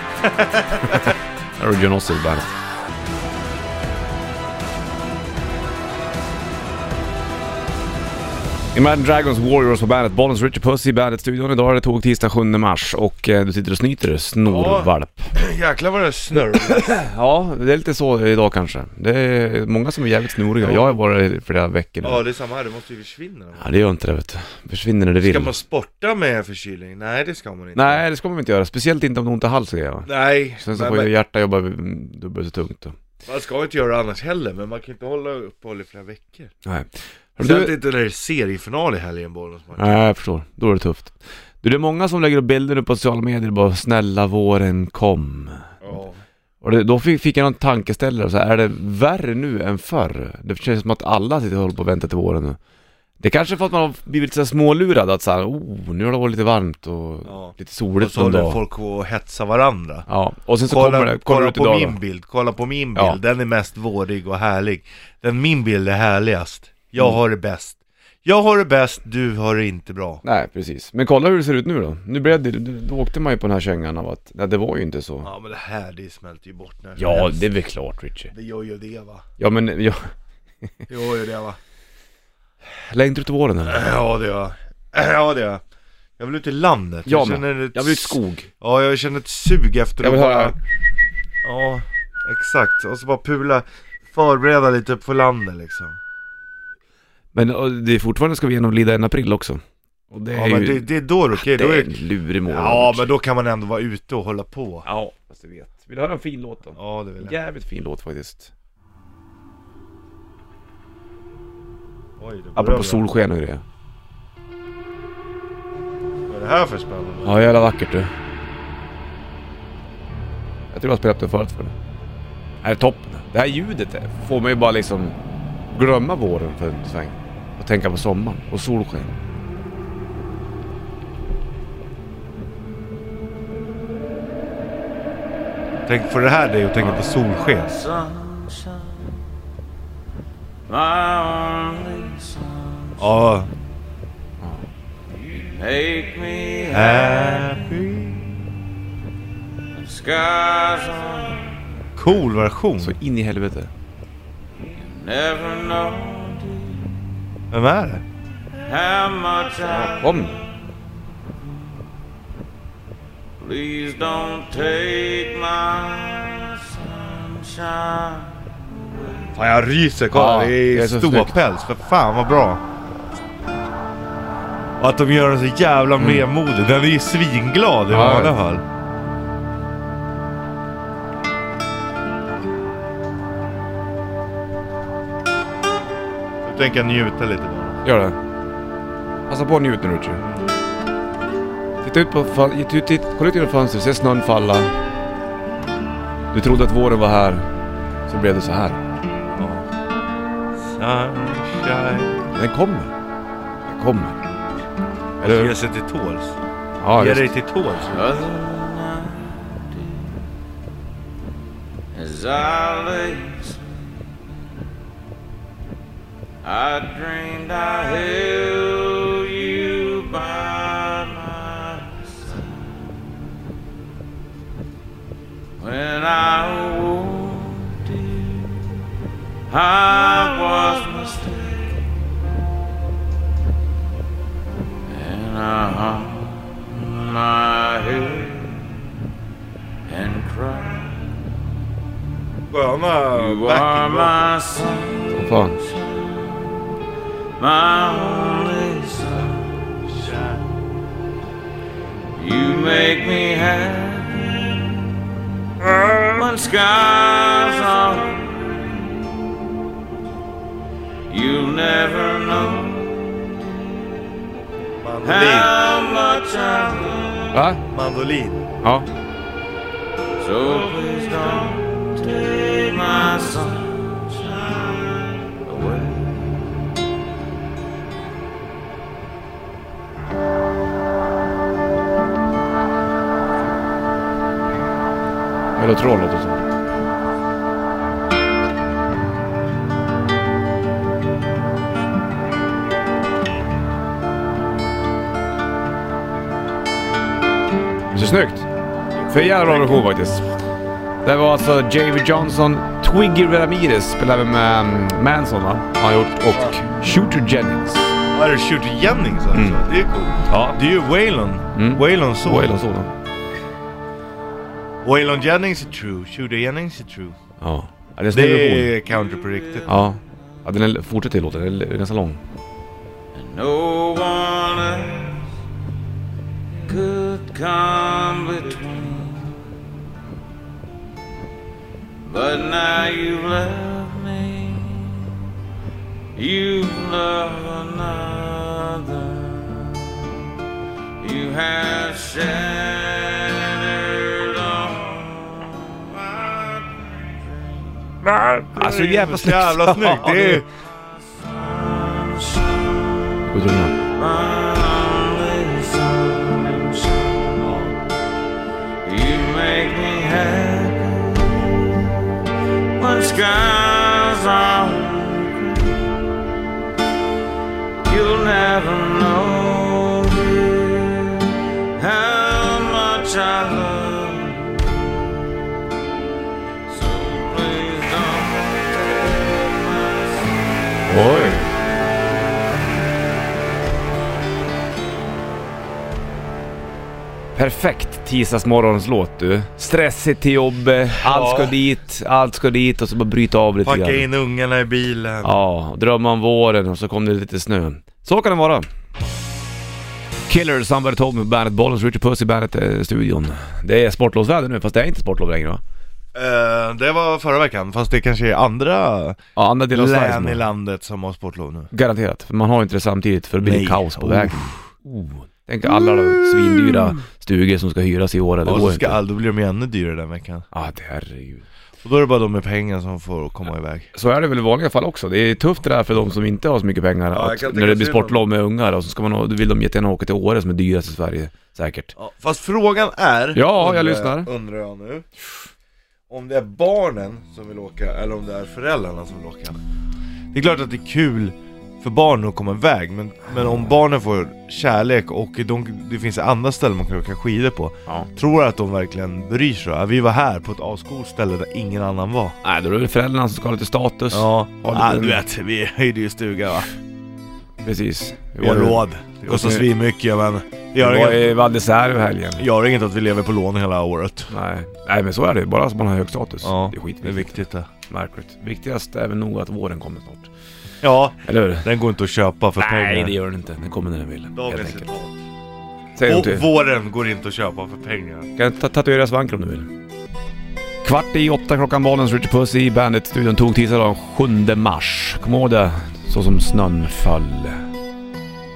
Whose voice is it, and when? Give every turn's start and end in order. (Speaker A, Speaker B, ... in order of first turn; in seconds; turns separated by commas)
Speaker A: 0.2-1.1, Speaker B: 0.9-2.5, Speaker B: 8.7-15.3, Speaker A: 14.5-17.0, Speaker B: 16.4-22.2, Speaker A: 20.6-21.0, Speaker A: 22.0-23.7, Speaker B: 23.6-25.5, Speaker A: 25.2-28.0, Speaker B: 27.7-33.0, Speaker A: 30.1-31.1, Speaker A: 33.2-36.5, Speaker B: 36.6-37.7, Speaker A: 37.4-40.0, Speaker B: 39.8-45.8, Speaker A: 45.8-46.2, Speaker B: 46.6-52.6, Speaker B: 53.2-58.6, Speaker A: 57.2-60.1, Speaker B: 60.1-62.0, Speaker A: 60.6-70.2, Speaker B: 70.2-75.3, Speaker A: 75.2-77.5, Speaker B: 77.0-78.3, Speaker A: 78.3-79.2, Speaker B: 79.4-80.1, Speaker A: 80.9-81.6, Speaker B: 82.8-83.8, Speaker A: 83.6-85.6, Speaker A: 86.2-90.6, Speaker B: 87.1-88.5, Speaker B: 90.0-90.5, Speaker A: 91.4-96.0, Speaker B: 97.3-103.1, Speaker A: 100.3-104.8, Speaker B: 104.8-108.5, Speaker A: 106.8-107.3, Speaker A: 112.2-113.0, Speaker B: 112.5-113.6, Speaker A: 116.3-117.4, Speaker B: 117.2-118.1, Speaker B: 120.7-121.7, Speaker B: 122.6-125.2, Speaker B: 125.7-129.1, Speaker A: 135.9-137.7, Speaker C: 136.8-139.2, Speaker C: 140.7-143.2, Speaker A: 143.0-143.5, Speaker C: 145.1-147.7, Speaker A: 146.7-148.4, Speaker C: 149.7-151.8, Speaker A: 151.9-152.9, Speaker B: 152.8-153.7, Speaker C: 154.6-157.2, Speaker A: 157.5-158.0, Speaker C: 158.6-160.7, Speaker B: 159.7-160.4, Speaker C: 163.4-169.4, Speaker A: 169.3-172.6, Speaker B: 170.1-171.3, Speaker A: 174.8-178.6, Speaker B: 177.9-178.3, Speaker A: 186.4-187.8, Speaker B: 187.8-188.2, Speaker B: 189.3-190.2, Speaker A: 190.2-190.6, Speaker B: 191.8-194.7, Speaker B: 196.3-197.4, Speaker B: 198.1-198.8, Speaker A: 199.3-199.7, Speaker A: 200.5-202.2, Speaker B: 202.3-202.9, Speaker B: 203.7-204.2, Speaker B: 205.2-205.5, Speaker A: 205.2-206.4, Speaker B: 206.8-207.3, Speaker A: 206.9-208.0, Speaker C: 207.9-210.3, Speaker C: 211.9-213.8, Speaker C: 216.4-223.1, Speaker C: 225.6-228.6, Speaker C: 229.5-232.2, Speaker C: 234.9-238.8, Speaker C: 239.9-241.4, Speaker A: 242.5-244.3, Speaker C: 243.1-246.7, Speaker B: 245.1-245.6, Speaker C: 247.4-250.2, Speaker A: 250.0-250.4, Speaker C: 252.2-255.0, Speaker C: 255.9-259.0, Speaker C: 261.1-264.1, Speaker A: 264.8-265.5, Speaker C: 265.0-267.4, Speaker B: 267.3-267.6, Speaker A: 267.7-268.5, Speaker C: 270.2-276.3, Speaker B: 285.6-286.4, Speaker B: 297.9-298.5, Speaker A: 298.9-299.8, Speaker B: 299.1-300.2, Speaker B: 301.0-307.9, Speaker A: 308.1-312.6, Speaker B: 309.3-309.6, Speaker B: 310.2-310.6, Speaker B: 311.5-312.9, Speaker A: 314.8-317.2, Speaker B: 317.4-318.7, Speaker A: 318.1-319.8, Speaker C: 318.9-320.2, Speaker B: 319.7-322.2, Speaker C: 323.1-325.3, Speaker C: 326.5-329.6, Speaker C: 332.0-335.2, Speaker C: 336.1-340.0, Speaker C: 341.0-348.0, Speaker A: 348.0-350.4, Speaker B: 348.6-350.4, Speaker C: 351.0-353.2, Speaker B: 353.3-353.8, Speaker C: 353.8-357.6, Speaker A: 357.4-357.8, Speaker C: 358.8-361.9, Speaker C: 362.8-366.1, Speaker C: 367.8-374.9, Speaker C: 376.6-381.4, Speaker B: 380.9-381.5, Speaker B: 387.3-394.1, Speaker A: 391.0-391.5, Speaker A: 393.6-395.3, Speaker B: 395.2-398.7, Speaker B: 400.3-405.6, Speaker A: 406.1-409.2, Speaker B: 409.4-410.4, Speaker A: 409.7-411.7, Speaker B: 411.7-419.0, Speaker A: 413.4-414.6, Speaker A: 418.4-420.5, Speaker B: 420.5-421.4, Speaker A: 421.8-423.9, Speaker B: 423.9-431.9, Speaker A: 427.1-428.2, Speaker A: 431.9-435.1, Speaker B: 433.3-434.3, Speaker A: 436.1-439.6, Speaker A: 440.3-452.4, Speaker B: 452.4-455.2, Speaker A: 454.1-456.7, Speaker B: 457.6-459.7, Speaker A: 458.4-461.3, Speaker B: 460.8-462.4, Speaker A: 462.4-464.3, Speaker B: 464.3-470.3, Speaker A: 466.4-467.7, Speaker A: 470.8-473.1, Speaker B: 471.2-471.7, Speaker B: 472.6-474.9, Speaker A: 474.3-475.2, Speaker B: 475.9-476.5, Speaker A: 476.0-478.3, Speaker B: 478.4-479.7, Speaker B: 480.8-487.6